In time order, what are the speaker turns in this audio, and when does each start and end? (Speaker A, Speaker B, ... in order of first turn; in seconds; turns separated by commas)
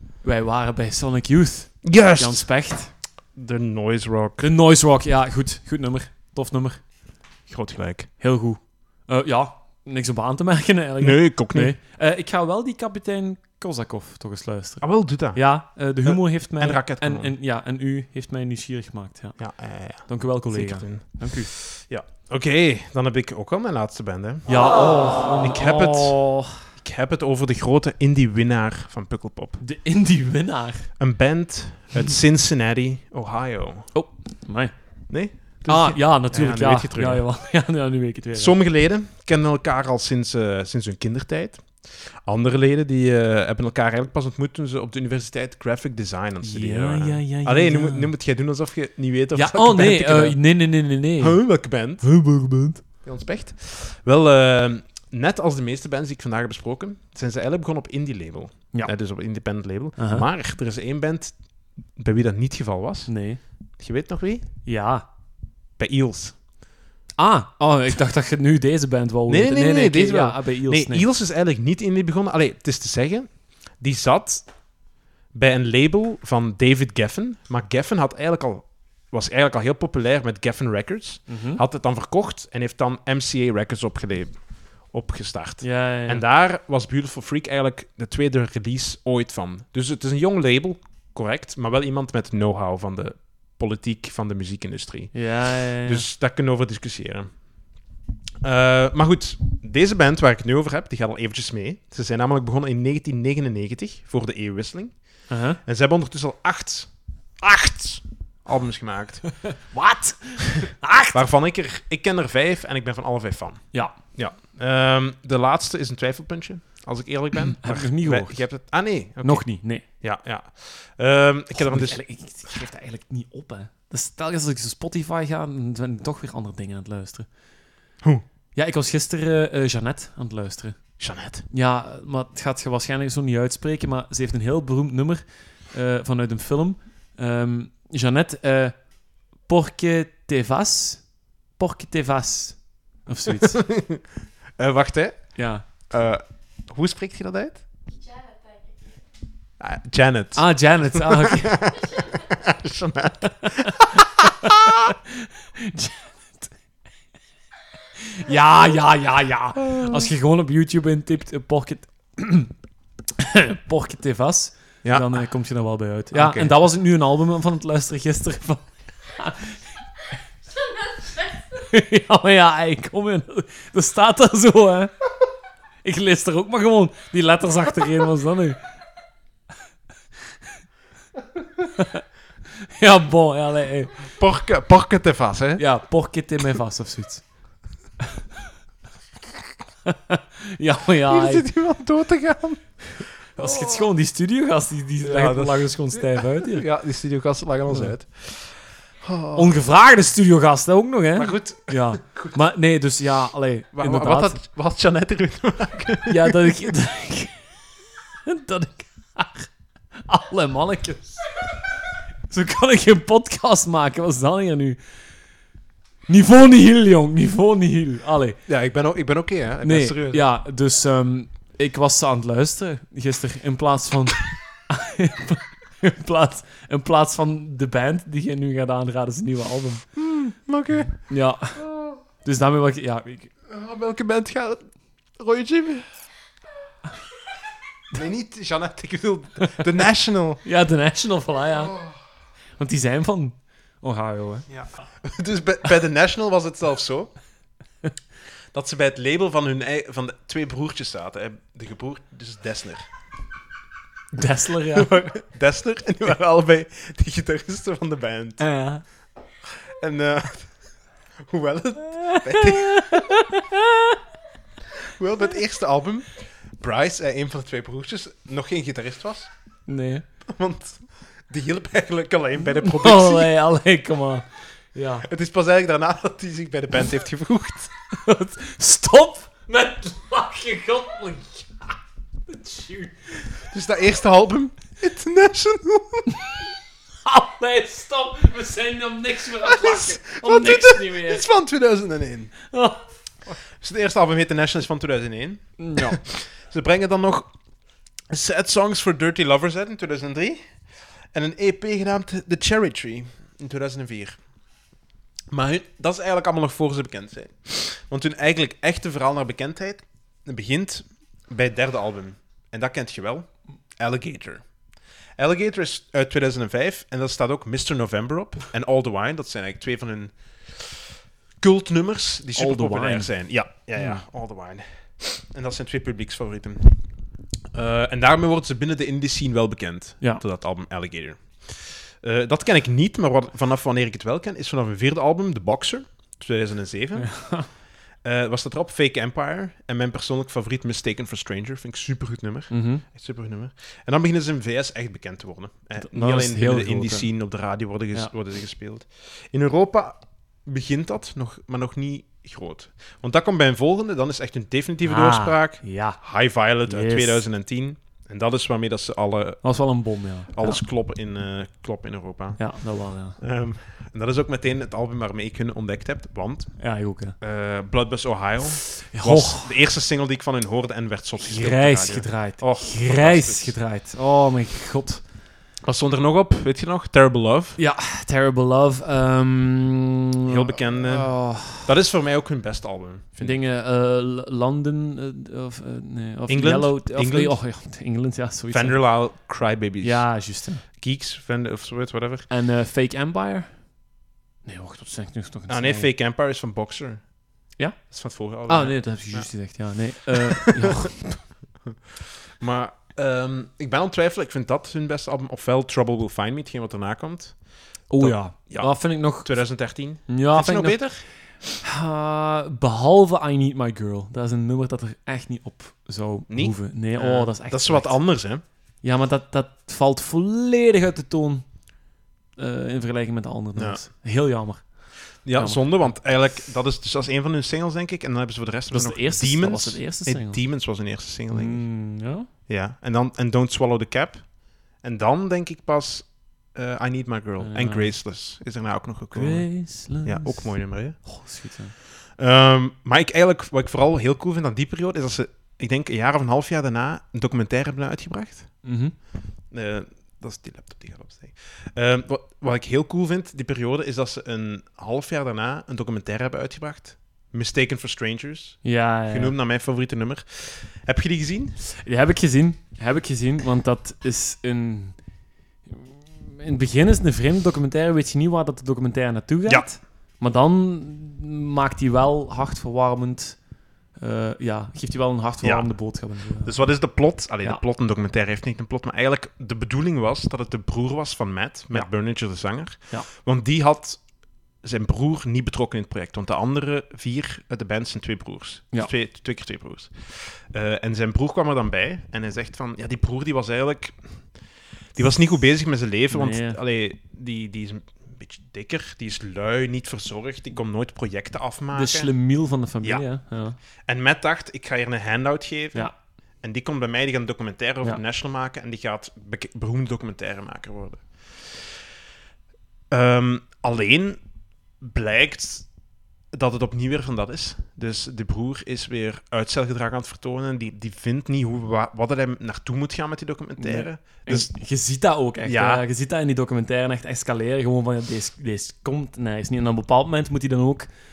Speaker A: 0.2-3.0, Speaker B: 1.8-4.5, Speaker A: 4.4-7.1, Speaker B: 7.5-8.1, Speaker A: 8.2-21.5, Speaker B: 11.0-11.7, Speaker B: 14.8-17.3, Speaker B: 19.4-29.6, Speaker A: 24.5-26.6, Speaker A: 29.6-30.9, Speaker B: 31.0-33.9, Speaker A: 33.9-38.6, Speaker B: 35.1-37.3, Speaker B: 38.3-50.6, Speaker A: 46.4-48.1, Speaker A: 49.3-52.8, Speaker B: 51.2-52.1, Speaker B: 53.0-63.1, Speaker A: 60.0-60.2, Speaker A: 63.1-63.4, Speaker B: 63.7-64.5, Speaker A: 64.6-65.0, Speaker B: 65.8-66.4, Speaker A: 67.2-71.0, Speaker B: 69.3-74.7, Speaker B: 75.3-97.5, Speaker A: 81.3-81.6, Speaker A: 85.6-86.2, Speaker A: 95.1-96.0, Speaker B: 98.4-109.5, Speaker A: 105.3-105.6, Speaker A: 109.6-111.2, Speaker B: 111.1-122.5, Speaker A: 113.7-114.0, Speaker A: 117.5-119.8, Speaker A: 121.5-127.3, Speaker A: 128.5-143.6, Speaker B: 131.0-131.4, Speaker B: 143.6-144.0, Speaker B: 144.6-147.6, Speaker A: 145.3-145.7, Speaker B: 149.6-154.7, Speaker A: 150.3-151.7, Speaker A: 155.6-156.5, Speaker A: 158.1-162.5, Speaker B: 159.6-160.1, Speaker A: 163.2-169.7, Speaker B: 164.8-165.3, Speaker B: 166.1-166.6, Speaker A: 171.5-174.9, Speaker A: 175.8-178.6, Speaker A: 181.8-182.0, Speaker A: 182.8-184.1, Speaker B: 184.1-185.7, Speaker A: 185.6-187.4, Speaker A: 189.9-191.5, Speaker B: 191.1-193.8, Speaker A: 193.3-196.7, Speaker B: 195.0-199.6, Speaker A: 197.7-197.9, Speaker A: 199.3-204.4, Speaker B: 201.2-202.4, Speaker B: 203.8-206.4, Speaker A: 206.1-207.4, Speaker A: 208.2-209.5, Speaker A: 210.1-211.4, Speaker A: 212.3-214.8, Speaker A: 216.1-218.4, Speaker B: 218.5-220.2, Speaker A: 219.6-229.9, Speaker B: 229.9-232.0, Speaker A: 231.1-231.6, Speaker A: 232.2-233.3, Speaker B: 233.5-235.9, Speaker B: 237.9-240.4, Speaker A: 240.4-241.8, Speaker B: 241.7-242.0, Speaker A: 242.6-244.7, Speaker B: 244.5-247.2, Speaker B: 248.5-252.8, Speaker A: 254.1-254.9, Speaker B: 254.8-258.5, Speaker A: 258.4-258.8, Speaker B: 259.7-263.1, Speaker A: 262.1-263.9, Speaker B: 264.9-269.3, Speaker A: 269.7-270.1, Speaker B: 270.3-273.3, Speaker A: 272.4-275.1, Speaker B: 275.0-277.7, Speaker A: 278.0-281.7, Speaker A: 282.3-283.3, Speaker B: 283.5-286.1, Speaker A: 287.1-291.2, Speaker B: 289.4-292.4, Speaker A: 292.5-292.8, Speaker B: 293.3-297.3, Speaker A: 295.6-296.0, Speaker B: 298.1-304.2, Speaker B: 305.3-314.5, Speaker B: 315.2-320.8, Speaker B: 321.4-327.0, Speaker A: 322.4-324.1, Speaker B: 327.5-359.6, Speaker A: 337.0-337.5, Speaker A: 342.5-342.8, Speaker A: 345.8-347.1, Speaker A: 354.8-356.0, Speaker A: 356.6-357.2, Speaker A: 359.4-360.6, Speaker B: 360.3-366.7, Speaker A: 362.4-363.2, Speaker A: 366.6-367.2, Speaker B: 367.2-373.6, Speaker A: 368.6-369.6, Speaker A: 371.2-375.1, Speaker B: 375.6-377.6, Speaker A: 377.6-381.7, Speaker B: 380.3-383.4, Speaker A: 383.2-389.1, Speaker B: 386.3-387.4, Speaker B: 388.5-392.3, Speaker A: 389.8-390.6, Speaker A: 392.3-393.8, Speaker A: 394.4-395.9, Speaker B: 395.5-397.2, Speaker A: 397.6-401.3, Speaker B: 397.9-399.8, Speaker B: 400.4-400.9, Speaker B: 402.4-411.1, Speaker A: 407.9-426.0, Speaker B: 416.3-418.4, Speaker B: 423.6-423.8, Speaker B: 425.2-431.9, Speaker A: 428.7-430.4, Speaker A: 431.3-432.3, Speaker B: 432.5-441.5, Speaker A: 437.4-438.0, Speaker A: 439.1-441.8, Speaker B: 442.1-448.7, Speaker A: 448.6-448.9, Speaker B: 449.5-461.6, Speaker A: 458.6-459.4, Speaker A: 461.8-465.0, Speaker A: 465.7-477.6, Speaker B: 475.4-484.1, Speaker B: 484.6-494.2, Speaker B: 494.9-502.1, Speaker A: 496.1-496.6, Speaker A: 501.7-503.6, Speaker B: 502.8-503.1, Speaker B: 503.8-511.7, Speaker B: 512.9-514.2, Speaker B: 514.8-515.7, Speaker B: 516.3-524.5, Speaker A: 523.6-530.9, Speaker B: 525.4-525.8